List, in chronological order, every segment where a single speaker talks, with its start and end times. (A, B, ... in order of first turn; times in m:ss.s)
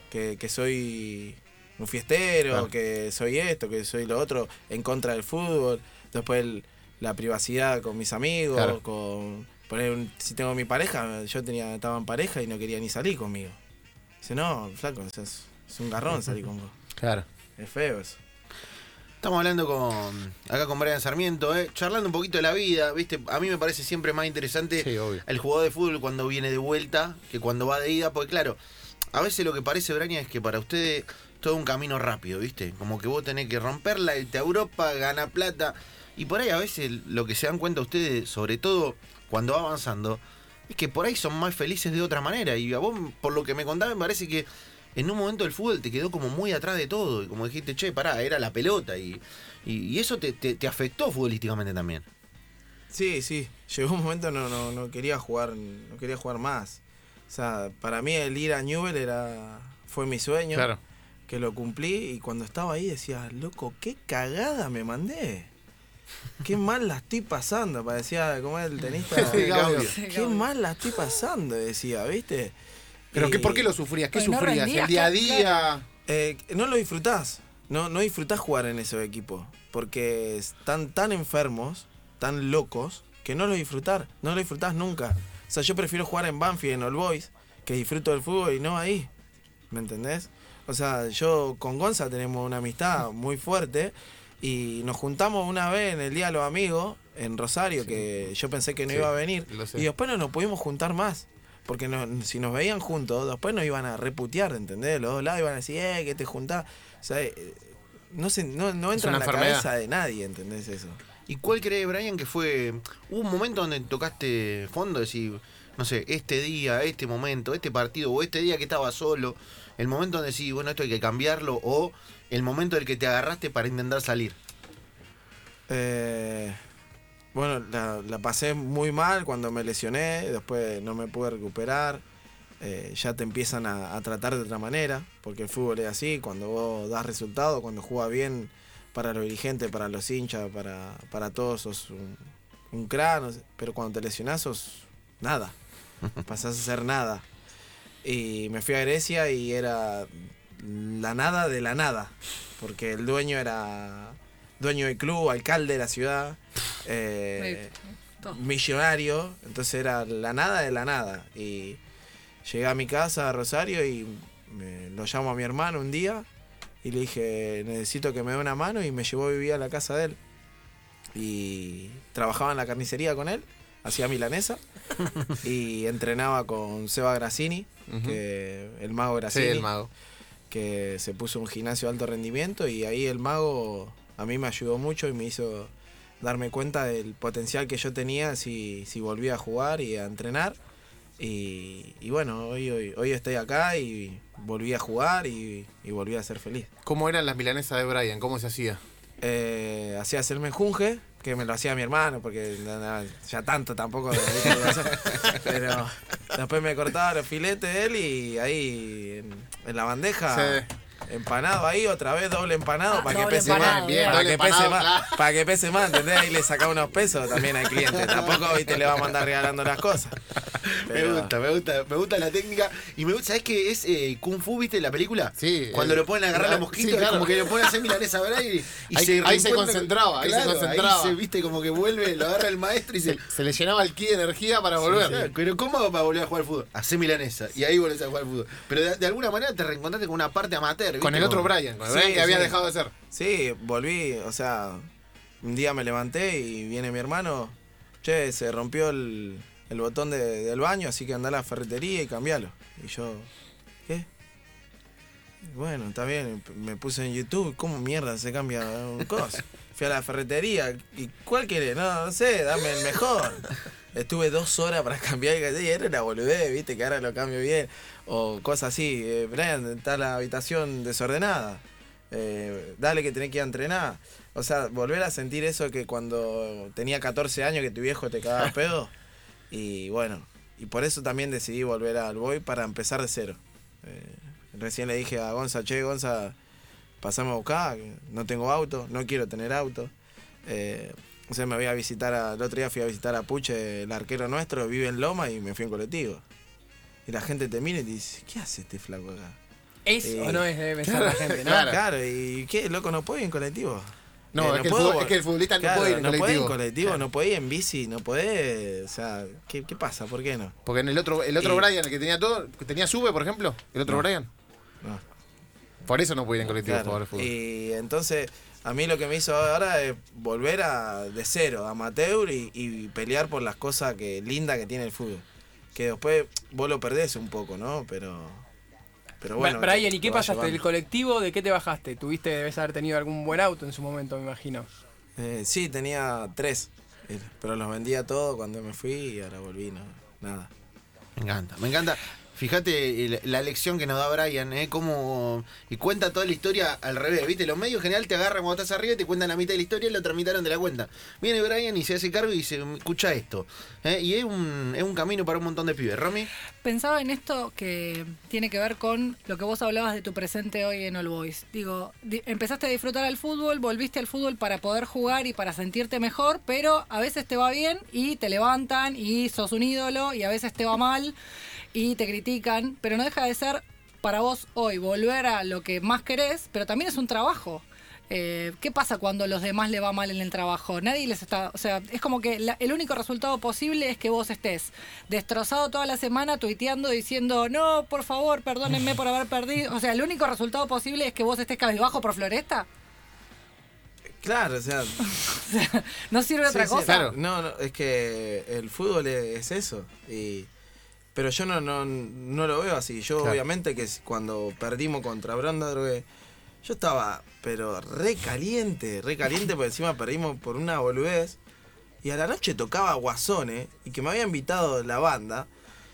0:00.1-0:13.6 A
0:14.2-0:16.7 A
0:17.0-0:17.3 B
0:17.6-0:18.2 A
0:19.2-0:28.6 C
0:24.8-0:25.2 B
0:29.1-0:52.0 C
0:52.9-1:00.7 A
1:00.5-1:00.8 B
1:01.3-1:05.5 A
1:06.4-1:12.6 A
1:09.1-1:09.9 B
1:09.4-1:09.9 C
1:09.8-1:10.4 D
1:13.1-1:13.7 A
1:13.1-1:15.8 B
1:14.1-1:15.7 D
1:16.1-1:29.1 A
1:29.7-1:51.0 A
1:38.9-1:39.9 B
1:49.0-1:49.6 B
1:51.3-2:04.4 C
2:05.7-2:06.6 A
2:07.3-2:12.0 A
2:12.6-2:25.6 A
2:26.2-2:27.2 A
2:28.0-2:41.8 A
2:42.4-2:46.3 A
2:46.8-2:50.2 A
2:51.2-2:54.6 A
2:55.4-2:59.7 A
2:57.9-2:58.2 B
2:59.3-2:59.9 B
3:00.5-3:10.6 A
3:11.2-3:16.7 A
3:16.8-3:18.8 B
3:19.2-3:40.2 A
3:30.3-3:30.7 B
3:32.9-3:34.2 D
3:33.3-3:35.2 B
3:38.1-3:38.4 C
3:40.6-3:53.2 C
3:40.9-3:41.3 A
3:45.4-3:47.7 B
3:48.9-3:51.2 B
3:53.0-3:55.3 B
3:54.9-4:01.5 C
4:01.0-4:02.9 B
4:01.8-4:02.6 A
4:03.1-4:04.9 A
4:05.4-4:13.3 A
4:15.4-4:38.9 A
4:39.5-4:46.4 A
4:47.0-4:49.9 A
4:50.4-4:56.2 A
4:57.1-4:59.4 A
4:59.9-5:01.6 E
5:00.0-5:00.5 A
5:00.8-5:01.8 B
5:01.4-5:10.6 A
5:04.3-5:06.6 B
5:10.6-5:14.3 B
5:11.4-5:11.7 A
5:15.9-5:17.3 B
5:16.4-5:25.2 A
5:25.8-5:28.4 A
5:29.2-5:30.6 A
5:29.4-5:34.7 E
5:35.2-5:40.5 A
5:41.2-5:56.3 C
5:56.6-6:11.2 D
6:11.7-6:32.7 D
6:34.2-6:35.2 A
6:35.1-6:37.0 D
6:36.5-6:40.5 A
6:36.8-6:37.2 B
6:41.2-6:46.1 A
6:46.6-6:51.4 A
6:52.0-6:55.5 A